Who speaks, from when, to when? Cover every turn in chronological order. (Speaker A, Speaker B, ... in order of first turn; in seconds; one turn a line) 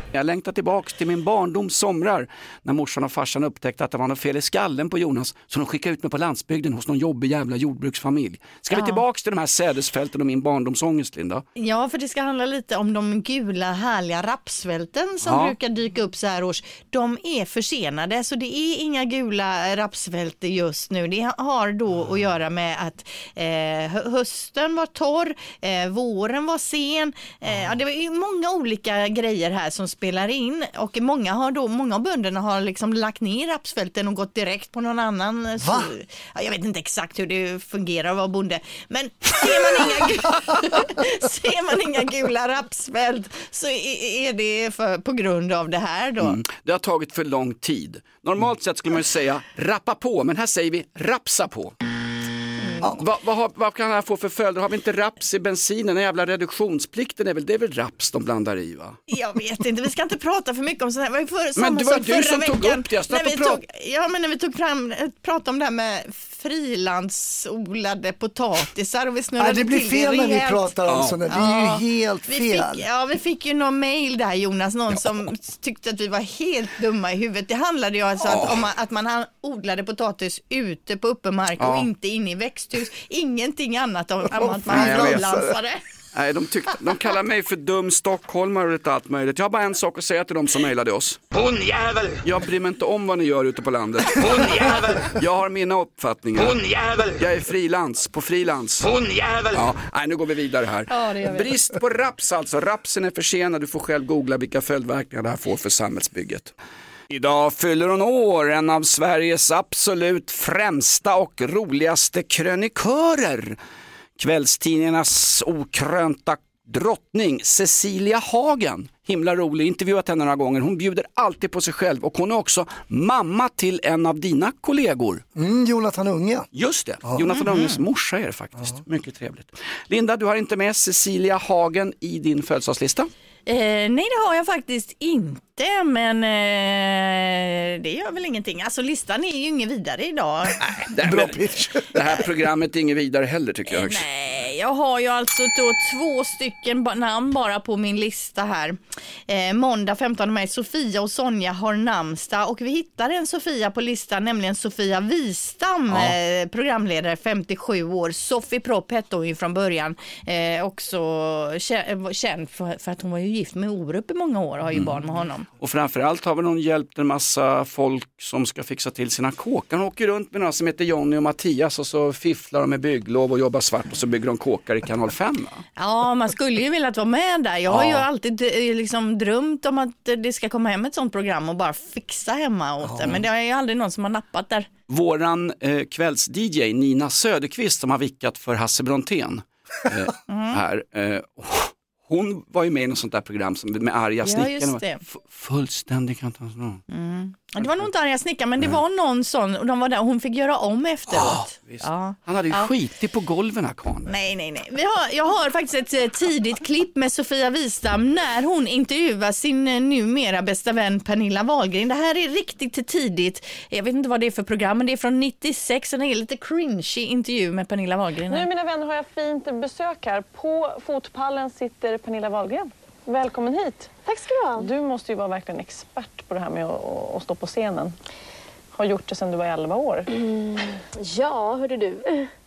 Speaker A: 0.1-11.4
Speaker B: 8.7-9.0
Speaker B: 11.6-46.4
Speaker A: 15.2-15.5
Speaker C: 35.6-35.9
Speaker A: 46.2-51.7
Speaker A: 53.0-59.0
Speaker B: 59.1-70.7
Speaker A: 61.6-63.6
Speaker C: 69.4-72.8
Speaker A: 70.9-71.2
Speaker B: 71.3-85.8
Speaker A: 78.2-78.7
Speaker A: 81.6-81.9
Speaker C: 84.3-85.5
Speaker A: 84.7-85.2
Speaker A: 86.1-106.5
Speaker C: 94.2-94.4
Speaker B: 100.9-101.5
Speaker A: 107.1-113.6
Speaker A: 114.2-125.2
Speaker C: 125.3-126.5
Speaker A: 126.5-133.1
Speaker B: 127.3-127.8
Speaker B: 133.5-140.6
Speaker A: 140.8-144.1
Speaker C: 140.9-141.9
Speaker B: 143.7-165.4
Speaker A: 164.7-165.0
Speaker A: 165.6-175.6
Speaker B: 175.8-184.7
Speaker A: 177.7-178.1
Speaker A: 184.9-196.8
Speaker B: 190.3-190.6
Speaker B: 194.2-195.0
Speaker B: 196.9-202.7
Speaker A: 201.1-204.1
Speaker B: 204.1-218.5
Speaker D: 218.3-223.9
Speaker E: 224.1-224.7
Speaker D: 224.6-227.9
Speaker D: 228.7-230.1
Speaker E: 230.9-232.3